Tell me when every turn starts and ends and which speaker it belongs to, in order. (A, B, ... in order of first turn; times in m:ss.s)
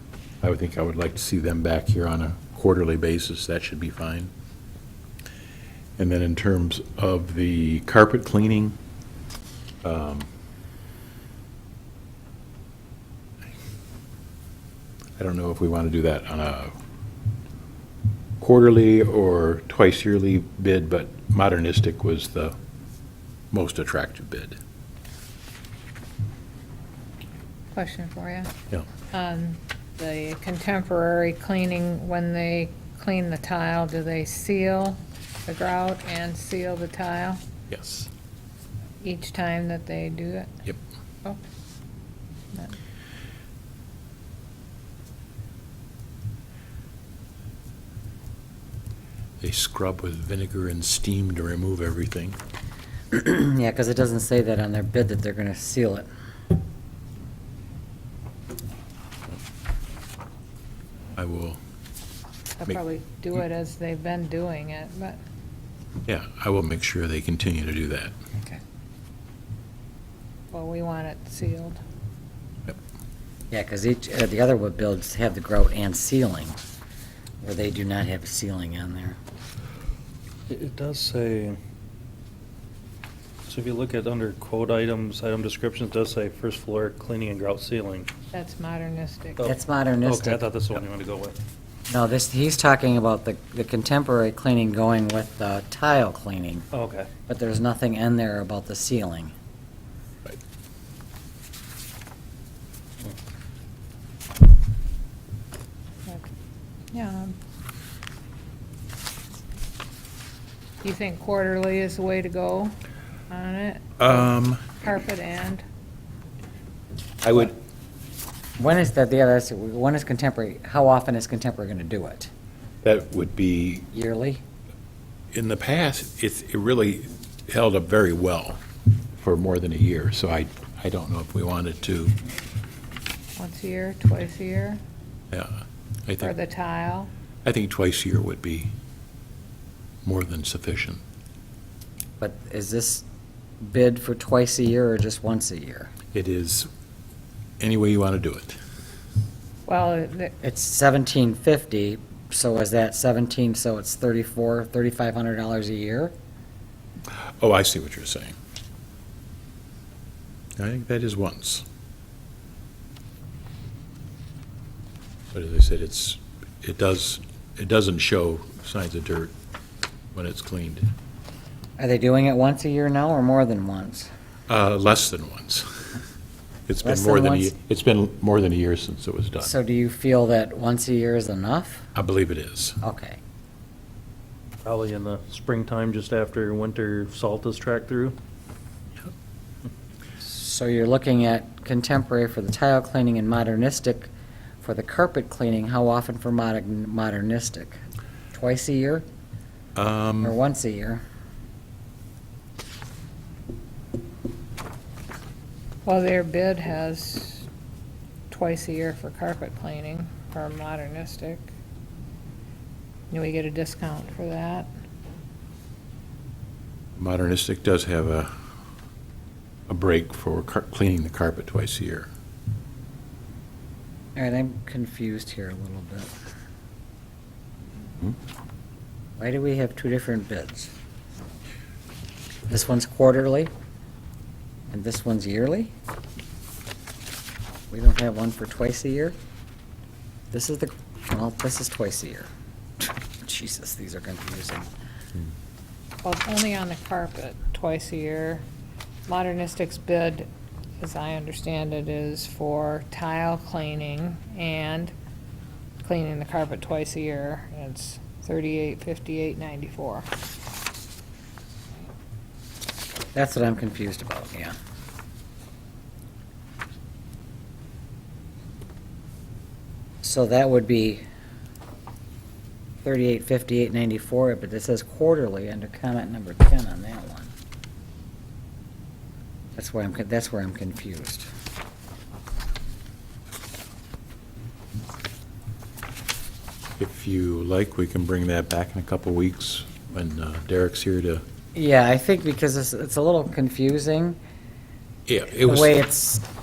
0:00.4-0:04.3 A
0:06.0-0:08.8 A
0:09.8-0:10.3 A
0:15.2-0:16.8 A
0:18.4-0:22.5 A
0:23.5-0:24.6 A
0:27.7-0:28.5 B
0:29.1-0:37.4 B
0:37.7-0:38.1 A
0:39.0-0:40.6 B
0:49.4-0:52.4 A
0:53.1-0:56.1 C
1:01.2-1:01.6 A
1:02.6-1:05.2 B
1:06.0-1:08.1 A
1:10.5-1:11.8 B
1:13.5-1:16.5 C
1:17.4-1:19.2 C
1:20.5-1:21.6 D
1:23.4-1:28.1 D
1:28.3-1:29.5 B
1:29.4-1:31.4 D
1:29.4-1:30.4 C
1:31.9-1:36.7 C
1:36.7-1:37.1 D
1:37.3-1:39.3 C
1:46.9-1:47.3 B
1:50.8-1:52.7 B
1:53.3-1:55.6 B
1:54.0-1:54.6 A
1:57.2-1:57.5 A
1:58.6-2:02.3 C
2:02.8-2:03.8 A
2:03.9-2:04.4 C
2:05.3-2:08.6 A
2:09.2-2:12.2 A
2:13.4-2:14.8 B
2:15.3-2:16.3 A
2:16.2-2:17.1 B
2:17.4-2:18.7 A
2:20.0-2:21.0 A
2:22.2-2:23.0 C
2:23.6-2:25.9 C
2:26.1-2:26.7 A
2:27.6-2:28.6 A
2:29.7-2:30.3 B
2:30.4-2:36.1 C
2:37.1-2:38.3 A
2:40.6-2:41.6 A
2:45.3-2:49.3 A
2:50.1-2:50.9 A
2:51.8-2:54.1 C
2:54.5-2:55.8 A
2:56.7-2:59.5 A
2:56.8-2:57.5 C
2:59.4-3:01.9 C
3:01.9-3:02.8 A
3:02.8-3:03.2 C
3:04.6-3:08.1 D
3:10.2-3:14.1 C
3:14.6-3:17.8 C
3:18.3-3:19.0 C
3:19.8-3:20.3 A
3:20.2-3:21.0 C
3:25.8-3:27.4 B
3:28.3-3:31.5 B
3:33.1-3:34.7 B
3:37.0-3:38.3 A
3:39.7-3:42.1 A
3:44.2-3:46.2 C
3:49.2-3:50.7 C
3:52.5-3:53.5 C
3:54.7-3:55.7 C
3:57.7-3:59.2 C
4:00.3-4:02.3 C
4:02.8-4:04.7 C
4:06.0-4:08.4 B
4:09.1-4:10.3 B
4:10.8-4:14.9 B
4:15.8-4:20.1 B
4:23.1-4:24.6 C
4:30.0-4:31.0 C
4:32.8-4:37.3 C
4:39.5-4:41.3 C
4:46.8-4:51.2 A
4:51.5-4:54.2 C
4:55.1-4:55.8 A
4:55.4-4:56.2 C